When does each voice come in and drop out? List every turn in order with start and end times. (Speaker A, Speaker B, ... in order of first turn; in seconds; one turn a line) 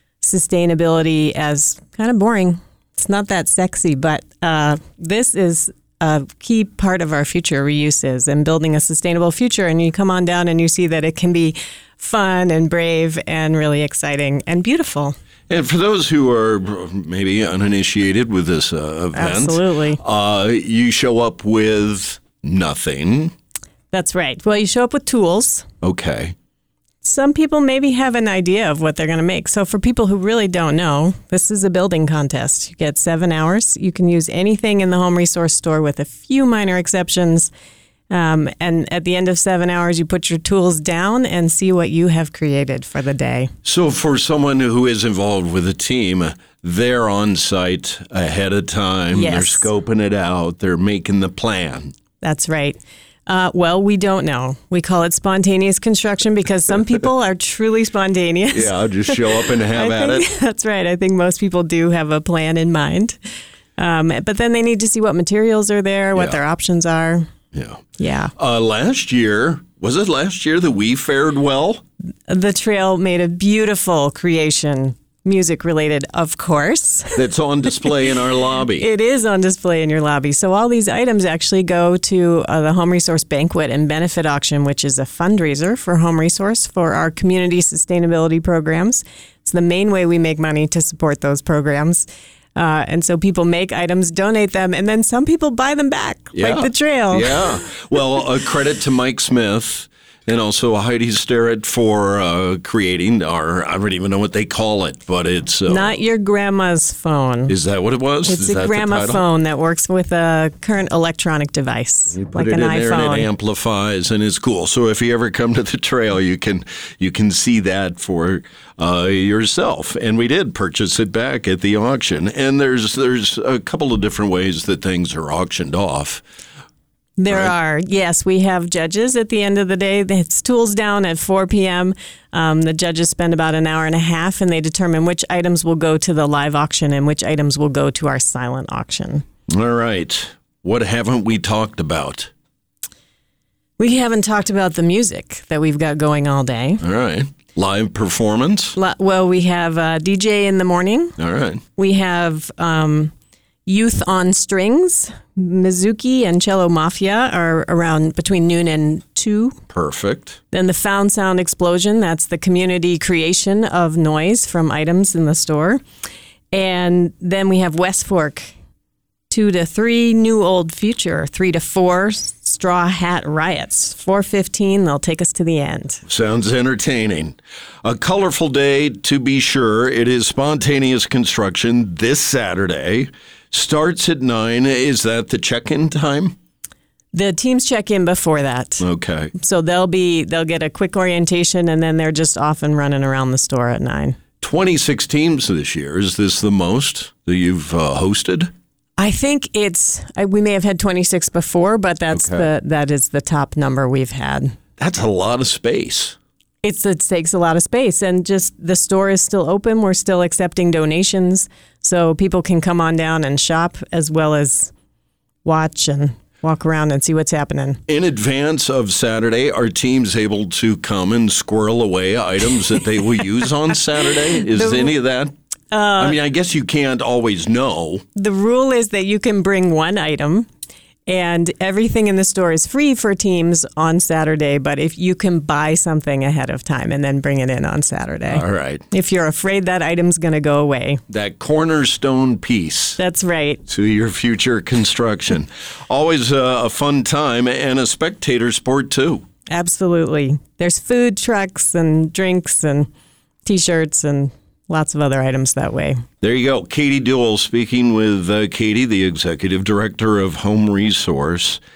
Speaker A: 0.2-15.1
Speaker B: 15.5-23.3
Speaker A: 19.1-20.0
Speaker A: 23.9-25.6
Speaker B: 25.8-26.3
Speaker A: 27.0-37.5
Speaker A: 38.1-43.5
Speaker B: 43.6-51.9
Speaker A: 49.1-49.7
Speaker A: 52.2-63.2
Speaker B: 58.5-60.2
Speaker A: 63.8-67.2
Speaker B: 67.5-67.8
Speaker A: 68.0-68.3
Speaker B: 68.4-71.8
Speaker A: 72.3-77.2
Speaker B: 77.2-78.9
Speaker A: 78.7-97.6
Speaker B: 96.3-105.9
Speaker A: 105.7-107.5
Speaker B: 107.5-109.2
Speaker A: 108.2-113.3
Speaker B: 112.1-126.2
Speaker A: 127.2-139.2
Speaker B: 139.5-142.3
Speaker A: 143.8-146.8
Speaker B: 146.8-148.8
Speaker A: 148.7-151.2
Speaker B: 151.2-151.6
Speaker A: 151.8-153.1
Speaker A: 153.7-159.6
Speaker B: 159.7-160.4
Speaker A: 160.5-165.8
Speaker A: 166.5-168.5
Speaker A: 169.3-176.0
Speaker B: 176.1-186.3
Speaker A: 187.1-188.8
Speaker B: 188.8-189.3
Speaker A: 189.3-194.2
Speaker B: 194.4-198.5
Speaker A: 199.0-204.6
Speaker B: 202.1-202.4
Speaker B: 204.8-206.2
Speaker A: 206.6-214.7
Speaker A: 215.4-217.8
Speaker B: 217.9-225.3
Speaker A: 224.5-224.9
Speaker A: 225.7-226.2
Speaker B: 226.0-228.0
Speaker A: 228.2-230.5
Speaker A: 231.1-241.0
Speaker B: 238.3-238.8
Speaker B: 241.1-243.0
Speaker A: 243.0-243.6
Speaker B: 243.7-249.2
Speaker A: 249.5-252.9
Speaker A: 253.4-256.0
Speaker B: 256.2-261.6